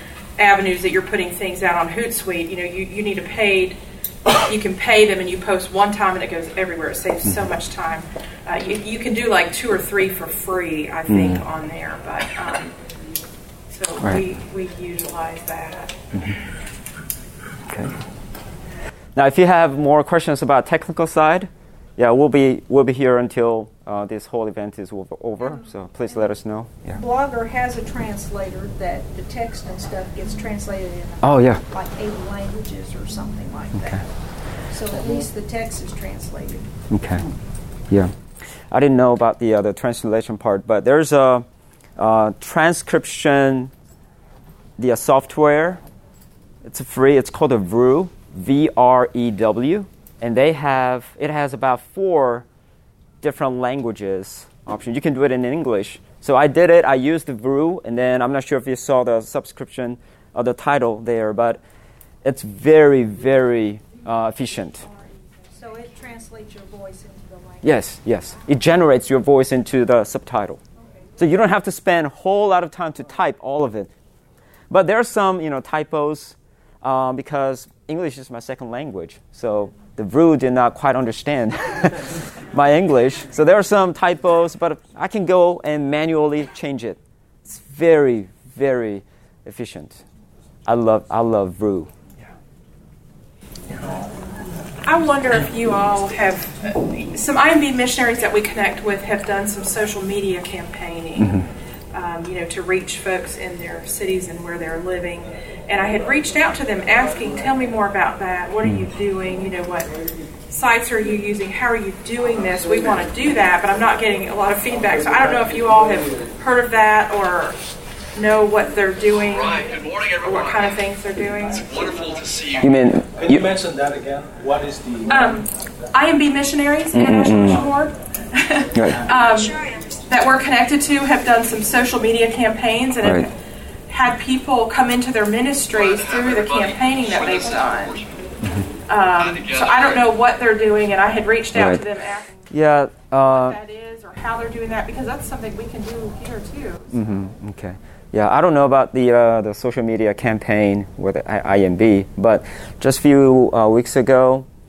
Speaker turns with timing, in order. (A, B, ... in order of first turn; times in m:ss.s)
0:00.4-0:03.8 A
0:04.4-0:12.7 A
0:11.1-0:11.4 B
0:13.7-0:16.0 A
0:19.1-0:27.0 B
0:26.9-0:34.0 C
0:31.2-0:31.6 B
0:34.7-0:36.7 C
0:36.9-0:37.2 B
0:38.7-0:41.4 B
0:42.0-0:43.7 B
0:44.8-0:45.8 B
0:46.6-0:52.4 B
0:53.2-1:01.6 B
1:02.2-1:04.8 B
1:04.9-1:07.9 C
1:07.6-1:10.6 B
1:11.2-1:13.9 B
1:14.7-1:30.0 B
1:30.6-1:31.9 B
1:34.8-1:49.9 A
1:50.5-1:57.6 A
1:58.1-2:01.9 A
1:59.3-2:00.8 D
2:01.6-2:02.8 D
2:02.6-2:03.5 B
2:03.1-2:05.4 E
2:05.1-2:13.3 A
2:06.9-2:07.6 B
2:13.9-2:18.0 A
2:15.7-2:18.1 D
2:18.8-2:22.5 A
2:19.2-2:20.1 D
2:22.5-2:23.6 B
2:23.1-2:27.0 A
2:26.9-2:34.5 B